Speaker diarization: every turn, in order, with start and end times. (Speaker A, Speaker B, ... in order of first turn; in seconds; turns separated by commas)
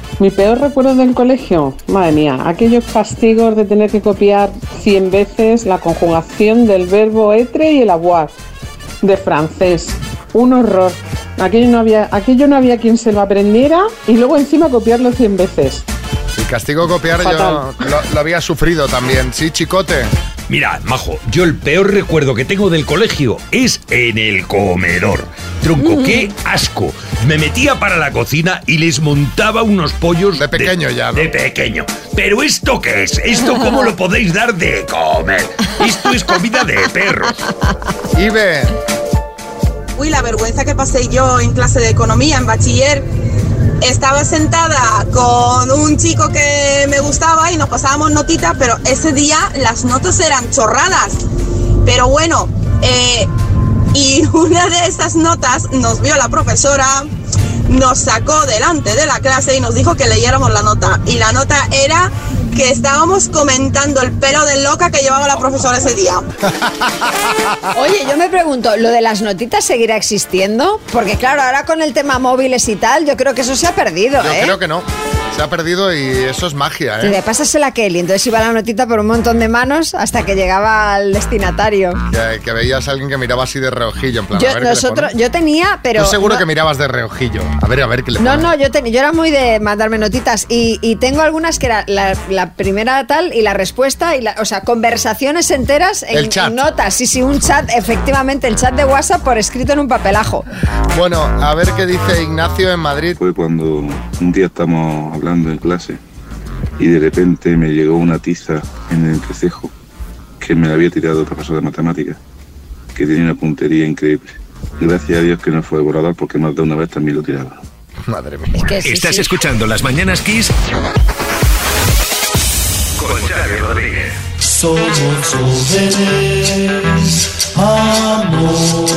Speaker A: 0.2-8.3, Speaker A: 9.0-15.8, Speaker B: 16.4-20.1, Speaker C: 20.5-37.3, Speaker B: 30.3-31.3, Speaker B: 38.1-38.7, Speaker D: 40.0-43.1, Speaker D: 43.8-51.2, Speaker D: 51.8-53.3, Speaker D: 53.9-57.1, Speaker D: 57.7-66.2, Speaker E: 67.7-74.5, Speaker B: 74.2-77.2, Speaker E: 77.0-82.0, Speaker B: 82.1-85.1, Speaker E: 84.3-86.4, Speaker B: 85.9-88.5, Speaker E: 88.2-100.4, Speaker B: 96.1-96.6, Speaker B: 100.9-103.2, Speaker F: 103.2-106.0, Speaker F: 106.8-109.7, Speaker F: 110.4-112.2, Speaker F: 113.0-117.6, Speaker B: 118.0-118.7, Speaker E: 118.5-119.3, Speaker G: 118.8-120.5, Speaker G: 123.0-124.1